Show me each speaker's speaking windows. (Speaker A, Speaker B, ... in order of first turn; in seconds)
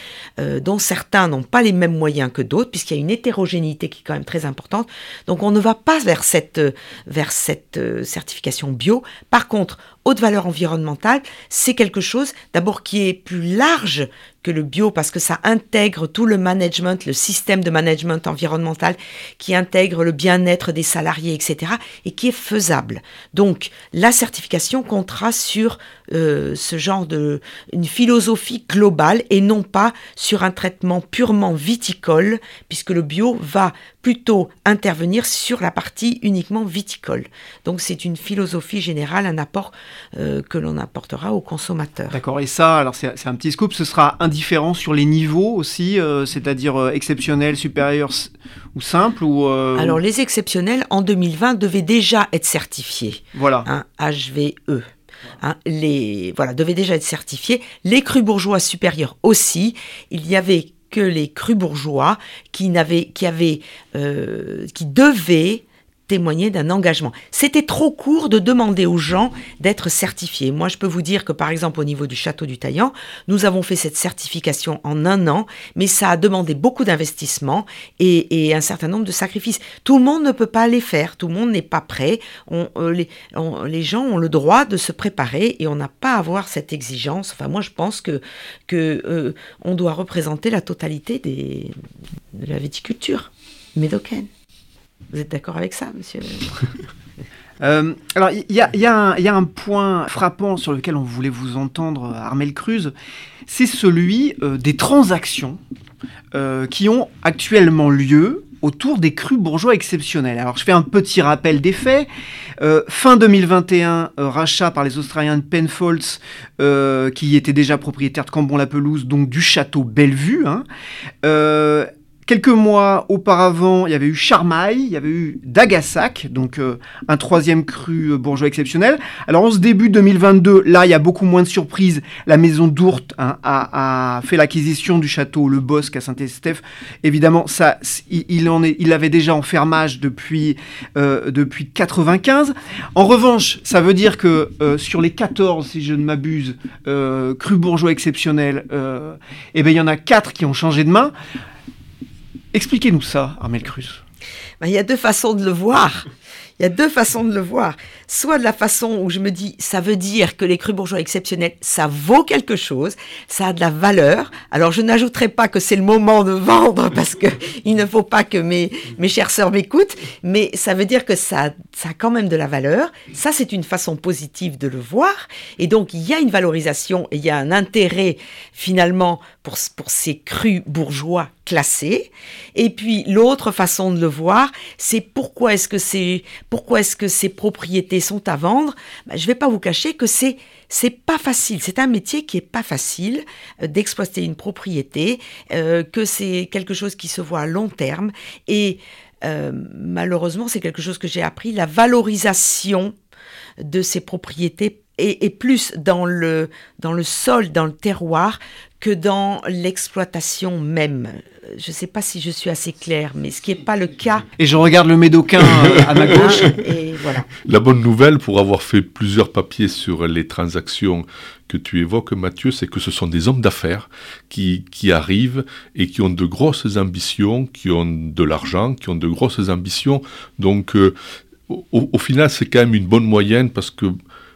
Speaker A: 0.4-42.2, 49.8-54.9, 55.4-91.7, 92.3-94.3, 95.1-96.6, 154.6-202.9, 203.6-214.3, 215.7-217.3
Speaker B: 42.1-50.0, 53.3-53.7, 97.6-102.9, 103.5-105.6, 106.3-112.1, 112.6-120.6, 121.2-151.1, 152.5-154.0, 214.4-216.6
Speaker C: 216.2-216.5, 217.4-230.9, 231.5-233.9